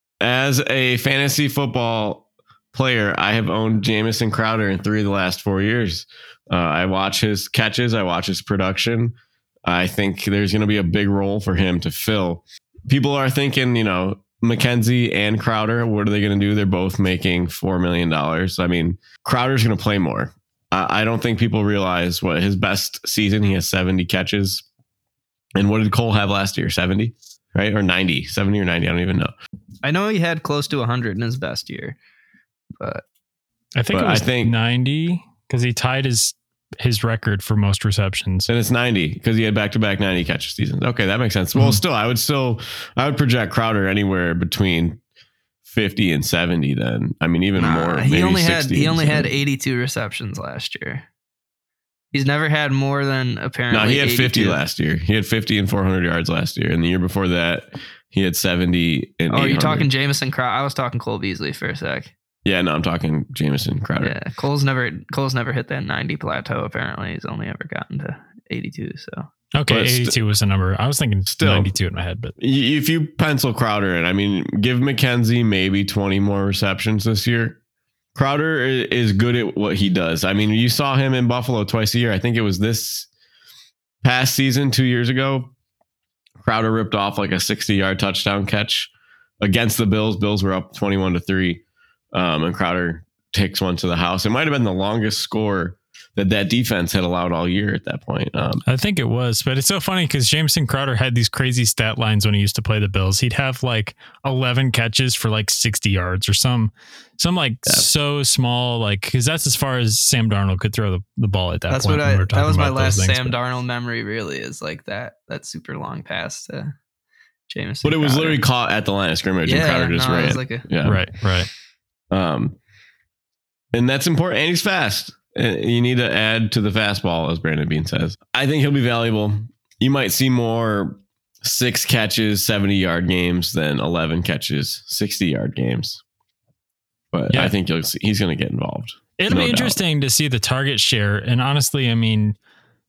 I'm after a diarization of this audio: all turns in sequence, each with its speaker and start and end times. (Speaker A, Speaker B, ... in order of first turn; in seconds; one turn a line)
Speaker A: 0.2-24.6
Speaker A: 25.6-29.3
Speaker B: 29.8-32.0
Speaker C: 33.8-38.5
Speaker A: 33.9-34.5
Speaker A: 38.5-45.0
Speaker A: 45.7-49.3
Speaker B: 47.6-51.1
Speaker B: 52.1-54.6
Speaker A: 53.7-59.9
Speaker B: 59.3-62.1
Speaker A: 62.5-64.1
Speaker B: 64.0-69.3
Speaker C: 69.5-72.3
Speaker A: 69.7-70.2
Speaker A: 71.3-71.7
Speaker A: 72.4-77.6
Speaker A: 78.2-83.1
Speaker A: 84.0-85.5
Speaker A: 86.4-98.6
Speaker C: 98.7-113.4
Speaker B: 111.7-116.8
Speaker B: 117.5-118.4
Speaker A: 117.8-121.1
Speaker B: 119.5-120.7
Speaker C: 120.8-121.5
Speaker A: 122.1-122.5
Speaker A: 123.7-136.0
Speaker A: 137.1-139.8
Speaker C: 139.2-142.4